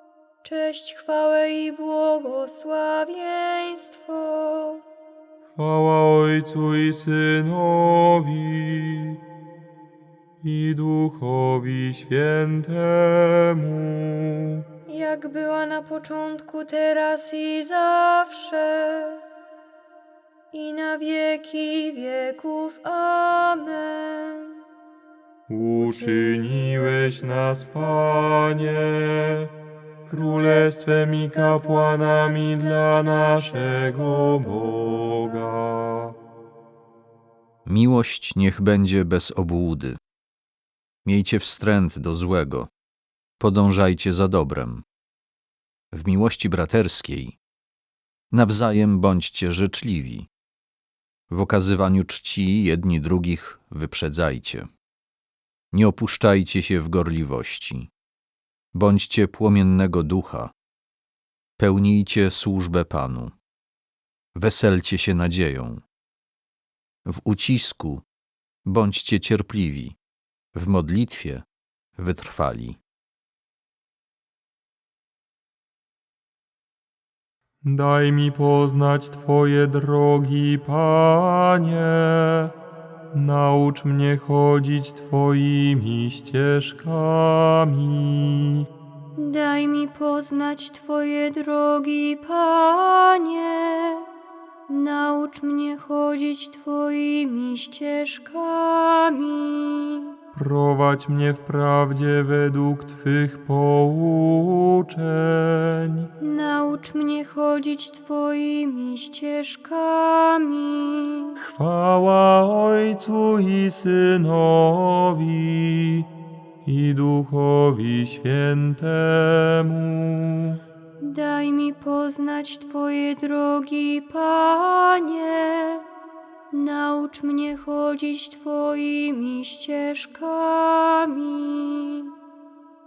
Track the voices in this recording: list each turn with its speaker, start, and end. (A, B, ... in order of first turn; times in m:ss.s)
0:00.4-0:04.8 A
0:05.6-0:09.2 B
0:10.4-0:14.6 B
0:14.9-0:19.2 A
0:20.5-0:24.6 A
0:25.5-0:29.5 B
0:30.1-0:36.1 B
0:37.6-0:40.0 C
0:41.0-0:42.7 C
0:43.4-0:44.8 C
0:45.9-0:47.4 C
0:48.3-0:50.3 C
0:51.3-0:54.7 C
0:55.7-0:57.9 C
0:58.7-1:00.5 C
1:01.6-1:03.3 C
1:04.3-1:05.8 C
1:07.0-1:08.0 C
1:08.6-1:10.0 C
1:10.5-1:11.4 C
1:12.0-1:12.8 C
1:17.6-1:22.5 B
1:23.1-1:28.6 B
1:29.2-1:34.0 A
1:34.7-1:40.1 A
1:40.3-1:46.1 B
1:46.2-1:51.4 A
1:51.4-1:56.1 B
1:56.6-2:00.6 B
2:01.0-2:05.8 A
2:06.5-2:12.1 A